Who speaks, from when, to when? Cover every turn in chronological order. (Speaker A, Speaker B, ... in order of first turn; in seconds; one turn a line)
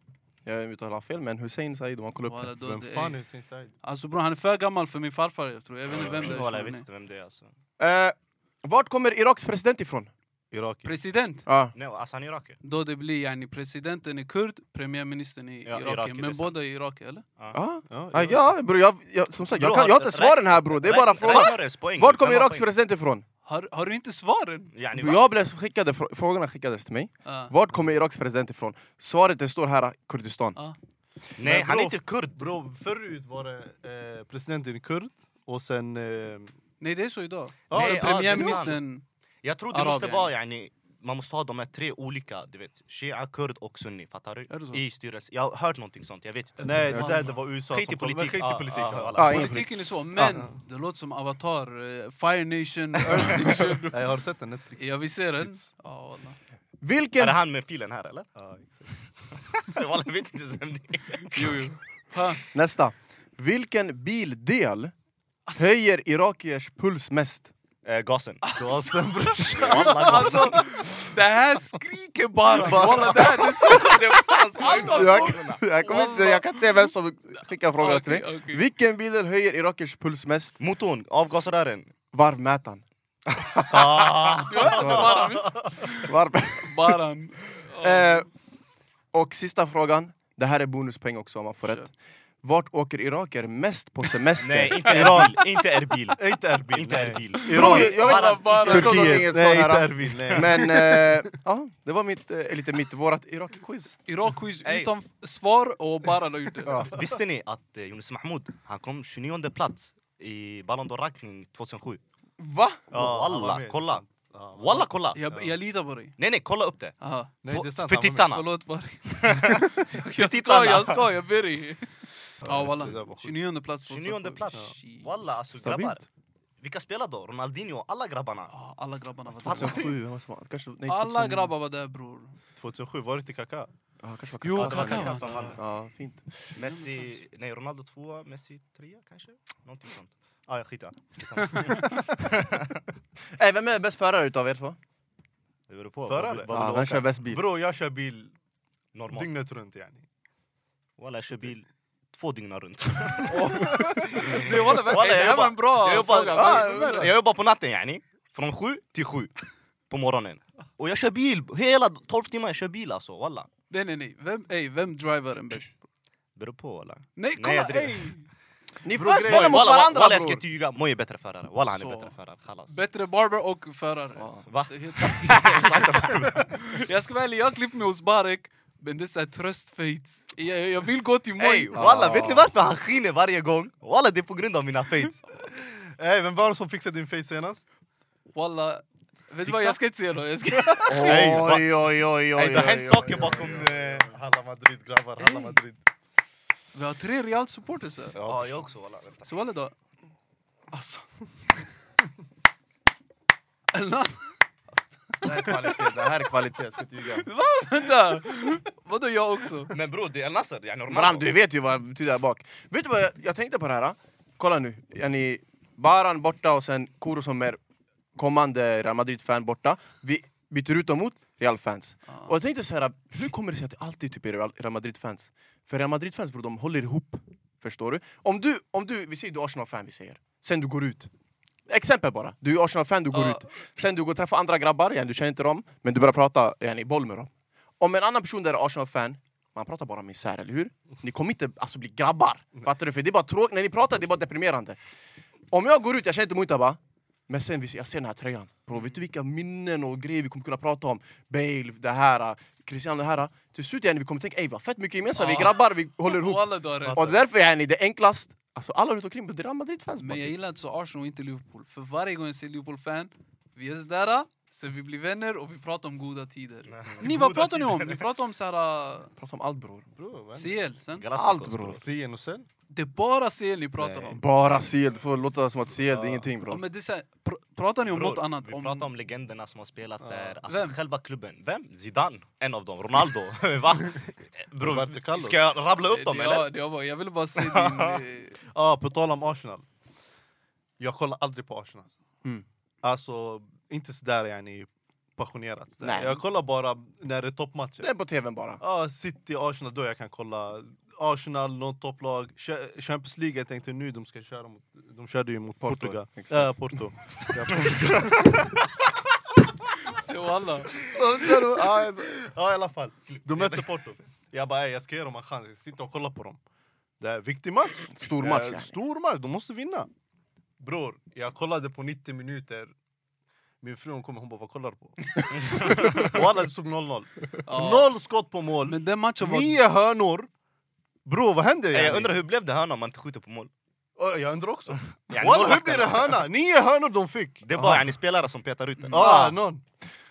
Speaker A: 0.4-2.5
Speaker B: 2.2-3.2
Speaker C: 2.6-3.7
Speaker B: 3.8-6.8
Speaker D: 5.9-7.5
Speaker A: 7.8-10.1
Speaker C: 10.5-10.9
Speaker B: 10.8-11.4
Speaker A: 11.4-11.7
Speaker D: 11.7-12.6
Speaker B: 12.6-17.2
Speaker D: 15.6-16.6
Speaker A: 17.5-23.2
Speaker C: 17.9-18.6
Speaker D: 19.5-22.7
Speaker B: 23.4-24.7
Speaker D: 24.7-25.2
Speaker A: 24.9-30.6
Speaker B: 27.2-27.5
Speaker D: 31.4-32.5
Speaker C: 31.4-36.5
Speaker B: 36.8-39.0
Speaker C: 37.7-38.7
Speaker D: 37.7-38.8
Speaker D: 39.4-49.5
Speaker B: 39.7-40.3
Speaker B: 44.5-44.8
Speaker C: 46.6-49.4
Speaker B: 46.9-47.3
Speaker A: 49.1-50.4
Speaker B: 49.2-54.0
Speaker C: 53.9-55.6
Speaker B: 54.8-56.4
Speaker A: 56.8-57.4
Speaker D: 57.2-61.7
Speaker B: 61.3-62.4
Speaker A: 62.5-64.9
Speaker A: 65.6-67.5
Speaker D: 67.8-68.6
Speaker B: 68.4-76.9
Speaker C: 68.6-70.7
Speaker D: 69.4-70.7
Speaker C: 72.5-73.3
Speaker D: 72.6-75.6
Speaker A: 74.7-80.6
Speaker B: 77.8-78.6
Speaker D: 80.6-81.9
Speaker A: 82.1-85.2
Speaker C: 83.7-85.2
Speaker D: 84.0-85.1
Speaker B: 84.5-88.2
Speaker A: 85.9-86.9
Speaker A: 87.5-88.3
Speaker A: 89.1-91.9
Speaker A: 92.4-95.2
Speaker D: 94.4-99.0
Speaker C: 94.9-95.4
Speaker C: 96.1-101.2
Speaker B: 97.3-99.1
Speaker A: 97.5-104.0
Speaker D: 100.1-100.5
Speaker B: 104.1-106.9
Speaker D: 104.6-104.9
Speaker A: 106.7-107.0
Speaker D: 106.9-112.0
Speaker A: 112.4-112.8
Speaker D: 112.9-115.2
Speaker C: 112.9-115.5
Speaker B: 115.1-116.2
Speaker D: 116.2-116.9
Speaker B: 117.0-117.3
Speaker C: 117.4-118.3
Speaker D: 117.5-118.5
Speaker B: 118.2-125.1
Speaker D: 119.2-121.1
Speaker C: 122.4-123.3
Speaker D: 123.9-126.0
Speaker A: 125.5-126.0
Speaker D: 126.6-128.5
Speaker B: 128.5-129.8
Speaker D: 129.4-130.0
Speaker A: 129.4-131.5
Speaker B: 130.9-132.3
Speaker C: 132.6-133.7
Speaker A: 134.0-136.6
Speaker B: 134.4-135.6
Speaker D: 134.5-135.6
Speaker C: 135.2-135.5
Speaker D: 136.5-142.8
Speaker B: 141.4-141.9
Speaker A: 143.4-144.8
Speaker D: 145.7-147.0
Speaker C: 146.0-148.3
Speaker A: 146.5-147.4
Speaker D: 148.9-149.3
Speaker C: 149.1-150.0
Speaker D: 151.0-159.3
Speaker B: 153.3-157.1
Speaker A: 156.3-157.1
Speaker D: 159.9-163.5
Speaker B: 163.7-165.7
Speaker D: 166.3-168.1
Speaker B: 167.2-168.3
Speaker A: 168.8-170.4
Speaker C: 168.9-169.7
Speaker D: 169.2-172.8
Speaker B: 171.7-172.1
Speaker B: 172.7-181.8
Speaker A: 174.2-174.4
Speaker D: 174.5-176.8
Speaker D: 181.4-185.2
Speaker A: 181.7-182.5
Speaker C: 185.5-187.6
Speaker B: 188.3-191.2
Speaker D: 189.4-189.8
Speaker D: 190.8-194.1
Speaker A: 190.8-193.3
Speaker C: 193.0-195.8
Speaker B: 195.2-195.5
Speaker B: 196.7-198.2
Speaker C: 198.1-198.7
Speaker D: 198.2-199.3
Speaker B: 199.2-199.7
Speaker A: 200.7-201.0
Speaker B: 203.7-204.4
Speaker B: 205.1-205.7
Speaker A: 205.2-207.3
Speaker B: 207.2-209.7
Speaker D: 209.7-211.3
Speaker A: 210.9-217.6
Speaker A: 218.1-231.1
Speaker A: 231.7-244.8
Speaker B: 233.1-233.4
Speaker A: 245.5-260.3
Speaker B: 255.1-257.0
Speaker C: 256.8-257.1
Speaker B: 260.0-269.1
Speaker D: 266.7-268.1
Speaker A: 269.2-269.9
Speaker C: 269.9-270.6
Speaker B: 270.3-271.1
Speaker D: 270.9-271.8
Speaker A: 271.1-271.8
Speaker C: 271.8-272.5
Speaker B: 272.7-274.2
Speaker C: 273.8-274.2
Speaker A: 274.1-276.6
Speaker C: 275.9-276.3
Speaker B: 276.5-278.9
Speaker D: 277.8-286.5
Speaker C: 280.0-280.4
Speaker B: 280.5-280.8
Speaker C: 284.6-285.4
Speaker B: 285.9-288.4
Speaker D: 287.4-288.0
Speaker C: 288.5-289.6
Speaker C: 290.8-291.9
Speaker C: 292.8-297.9
Speaker A: 295.8-296.2
Speaker A: 297.8-298.6
Speaker C: 298.6-308.4
Speaker A: 305.6-307.2
Speaker D: 307.6-308.5
Speaker B: 309.8-310.7
Speaker C: 310.8-316.4
Speaker A: 311.0-312.1
Speaker D: 313.1-313.8
Speaker C: 317.0-319.9
Speaker A: 317.9-318.8
Speaker C: 320.6-322.7
Speaker C: 323.6-330.3
Speaker D: 325.3-326.2
Speaker B: 327.4-327.9
Speaker B: 328.6-329.6
Speaker C: 331.0-332.1
Speaker D: 331.7-333.5
Speaker C: 334.0-337.9
Speaker D: 334.7-336.3
Speaker D: 337.4-339.2
Speaker C: 338.9-339.6
Speaker A: 338.9-339.4